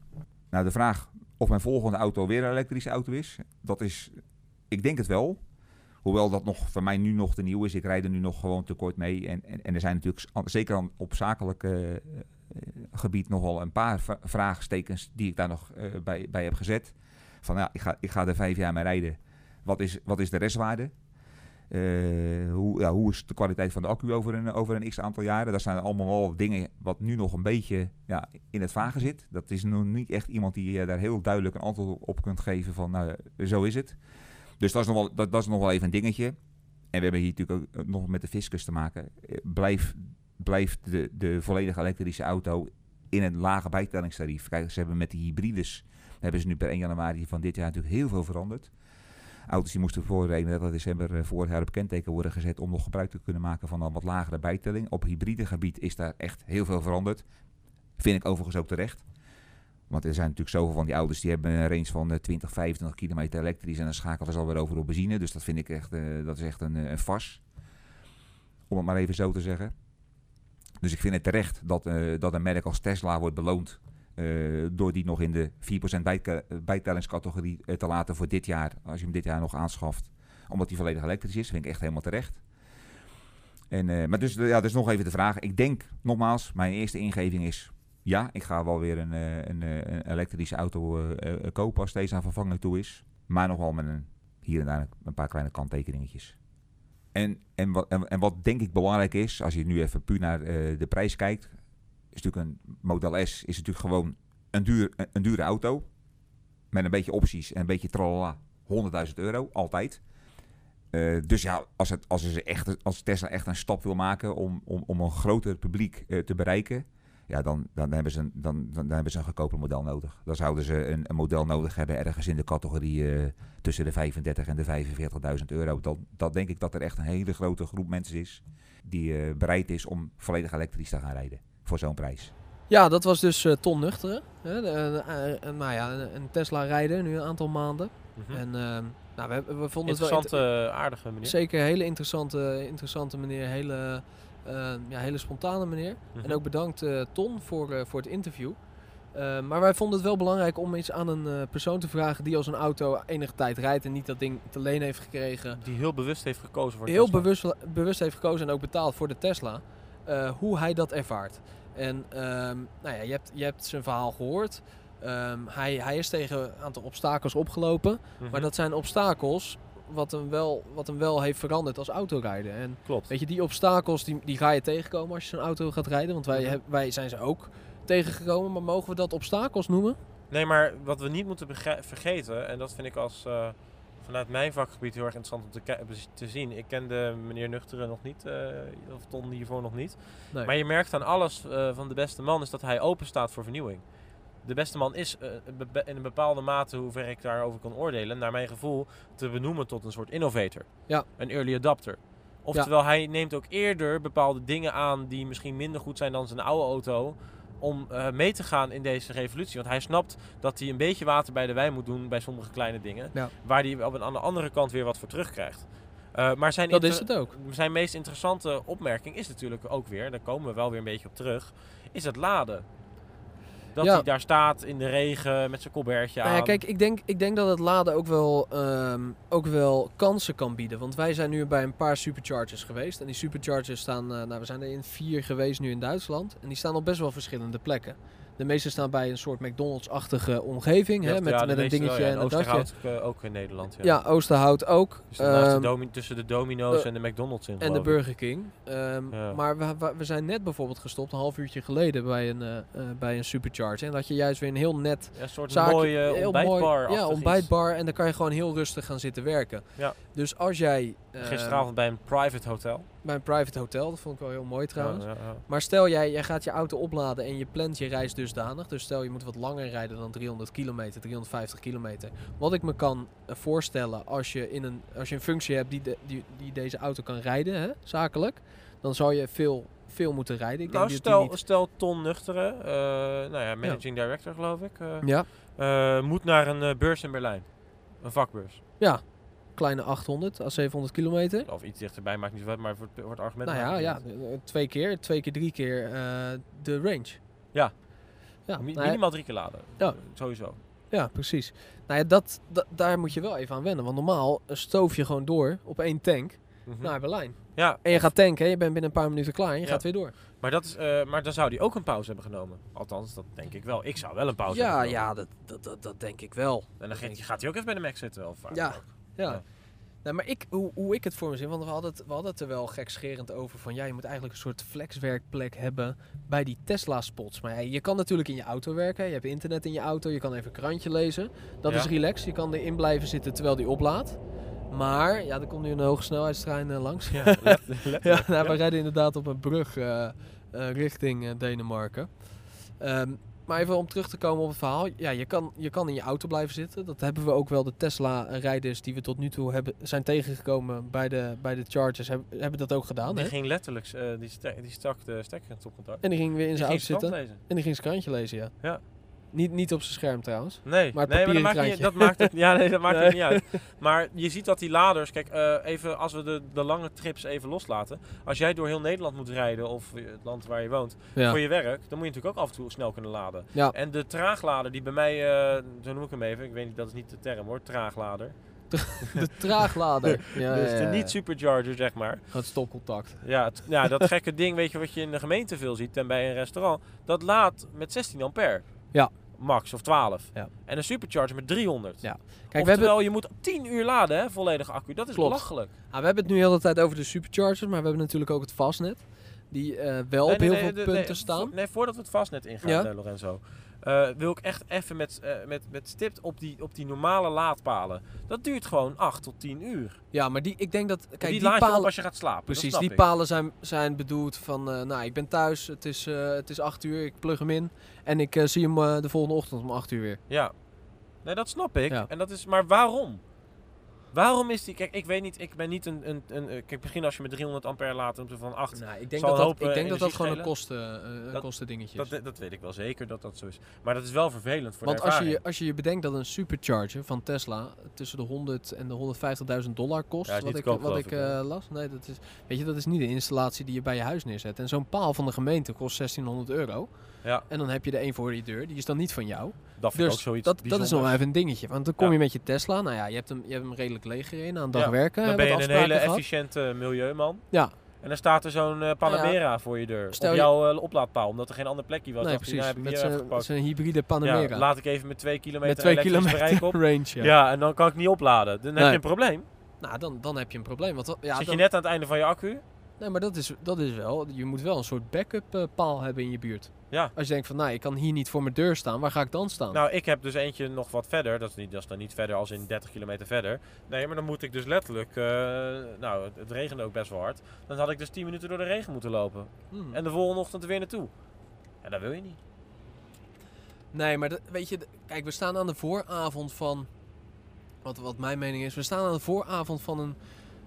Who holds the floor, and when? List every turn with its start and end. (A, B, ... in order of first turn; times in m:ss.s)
0:00.5-0:05.4 A
0:06.0-0:20.9 A
0:21.7-0:34.0 A
0:34.6-0:36.4 A
0:36.9-0:48.7 A
0:49.5-0:57.2 A
0:58.0-0:59.0 A
0:59.9-1:07.4 A
1:08.7-1:09.7 A
1:10.8-1:22.4 A
1:23.7-1:36.4 A
1:37.1-1:41.5 A
1:42.1-1:45.9 A
1:46.7-1:50.0 A
1:50.9-2:12.3 A
2:12.7-2:20.4 B
2:18.2-2:18.4 C
2:19.9-2:21.4 C
2:21.2-2:28.6 B
2:26.1-2:26.4 C
2:29.1-2:35.6 B
2:35.6-2:37.2 C
2:36.9-3:00.0 B
2:48.2-2:48.5 C
2:52.9-2:53.1 C
2:56.3-2:56.6 C
3:00.3-3:13.8 C
3:14.4-3:42.6 C
3:36.7-3:37.3 B
3:43.7-3:46.6 C
3:46.2-4:02.7 B
4:01.0-4:04.0 C
4:03.8-4:05.7 B
4:05.1-4:08.0 C
4:07.6-4:21.6 B
4:09.1-4:09.4 C
4:15.1-4:17.5 C
4:21.2-4:22.9 C
4:23.0-4:41.3 B
4:24.8-4:25.4 C
4:40.7-4:48.6 C
4:45.0-4:45.3 B
4:48.8-4:51.5 B
4:51.4-4:54.0 C
4:53.4-4:57.2 B
4:57.5-4:57.8 C
4:58.4-5:00.6 C
4:58.5-5:00.0 B
5:00.9-5:10.1 B
5:06.6-5:08.1 C
5:09.6-5:15.0 C
5:14.5-5:17.2 B
5:16.8-5:19.4 C
5:18.5-5:19.4 B
5:20.0-5:53.3 B
5:37.1-5:38.6 C
5:53.1-5:57.4 C
5:56.0-5:58.6 B
5:59.3-6:02.3 B
6:00.6-6:18.4 C
6:02.9-6:03.4 B
6:18.7-6:21.1 B
6:20.2-6:22.4 C
6:22.3-6:23.3 B
6:23.2-6:35.7 C
6:32.0-6:32.9 B
6:35.1-6:41.5 B
6:40.2-6:50.0 C
6:50.1-6:51.9 B
6:51.2-6:53.0 C
6:52.5-7:00.2 B
7:01.2-7:03.2 C
7:04.1-7:10.5 C
7:08.7-7:12.1 B
7:11.3-7:15.4 C
7:14.8-7:36.2 B
7:20.3-7:21.4 C
7:29.8-7:31.3 C
7:34.7-7:43.5 C
7:39.0-7:39.4 B
7:40.1-7:40.5 B
7:42.2-7:44.6 B
7:44.2-7:49.4 C
7:45.6-7:47.3 B
7:49.8-7:51.6 B
7:51.4-7:52.6 C
7:53.0-7:59.8 B
7:59.7-8:11.1 C
8:09.7-8:10.0 B
8:11.8-8:12.4 C
8:13.9-8:16.9 B
8:17.8-8:20.2 B